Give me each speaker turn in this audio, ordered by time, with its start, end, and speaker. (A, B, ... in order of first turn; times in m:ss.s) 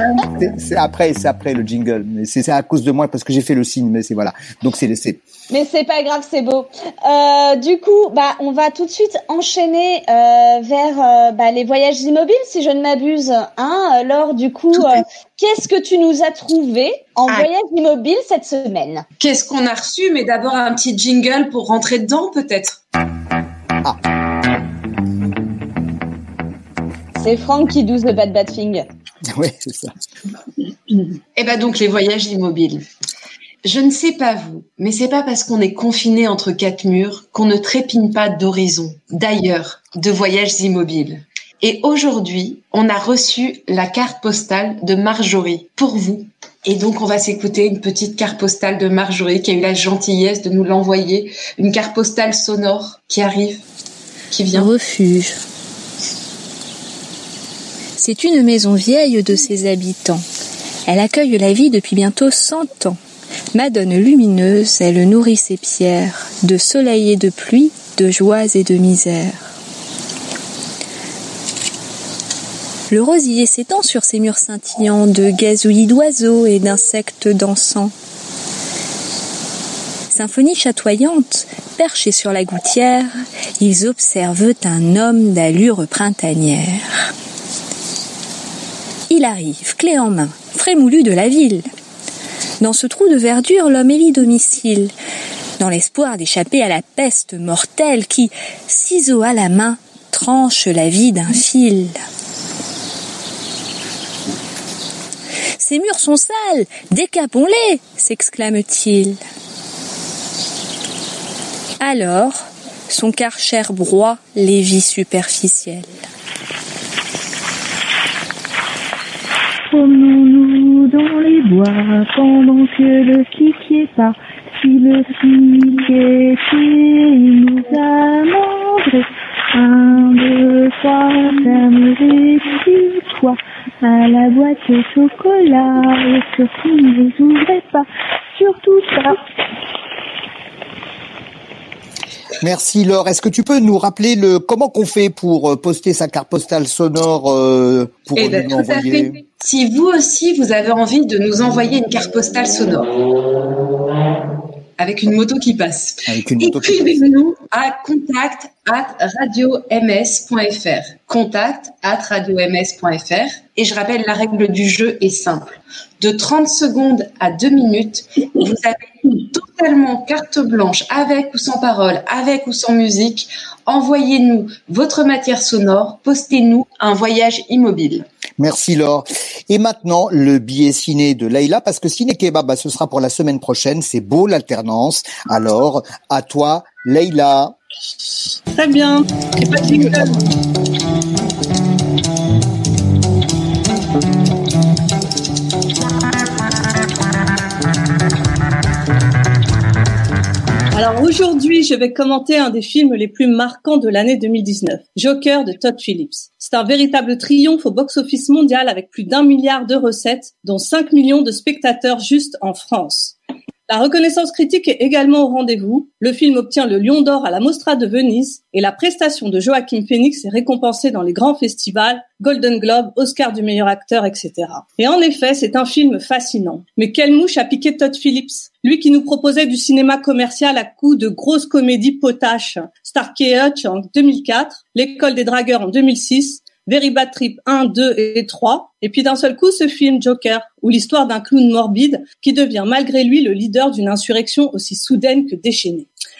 0:00.2-0:05.2 A
0:05.5-0:19.0 B
0:19.2-0:22.8 C
0:27.2-0:28.9 B
0:29.2-0:29.9 A
0:31.4-0:32.9 C
0:33.6-0:53.6 C
0:54.3-0:54.7 C
0:54.5-0:55.4 D
0:58.0-1:00.2 D
1:00.9-1:03.0 D
1:03.5-1:09.5 D
1:12.9-1:17.9 D
1:20.1-1:27.1 D
1:29.1-1:31.7 D
1:32.6-1:34.9 D
1:35.6-1:42.0 D
1:45.6-1:49.2 D
1:51.8-1:56.0 D
1:59.7-2:19.2 E
2:22.4-2:29.2 A
2:28.2-2:32.9 C
2:34.8-2:58.1 C
2:36.1-2:36.9 A
2:58.4-3:07.6 A
3:08.6-3:10.2 F
3:20.7-3:33.2 F
3:33.7-4:05.9 F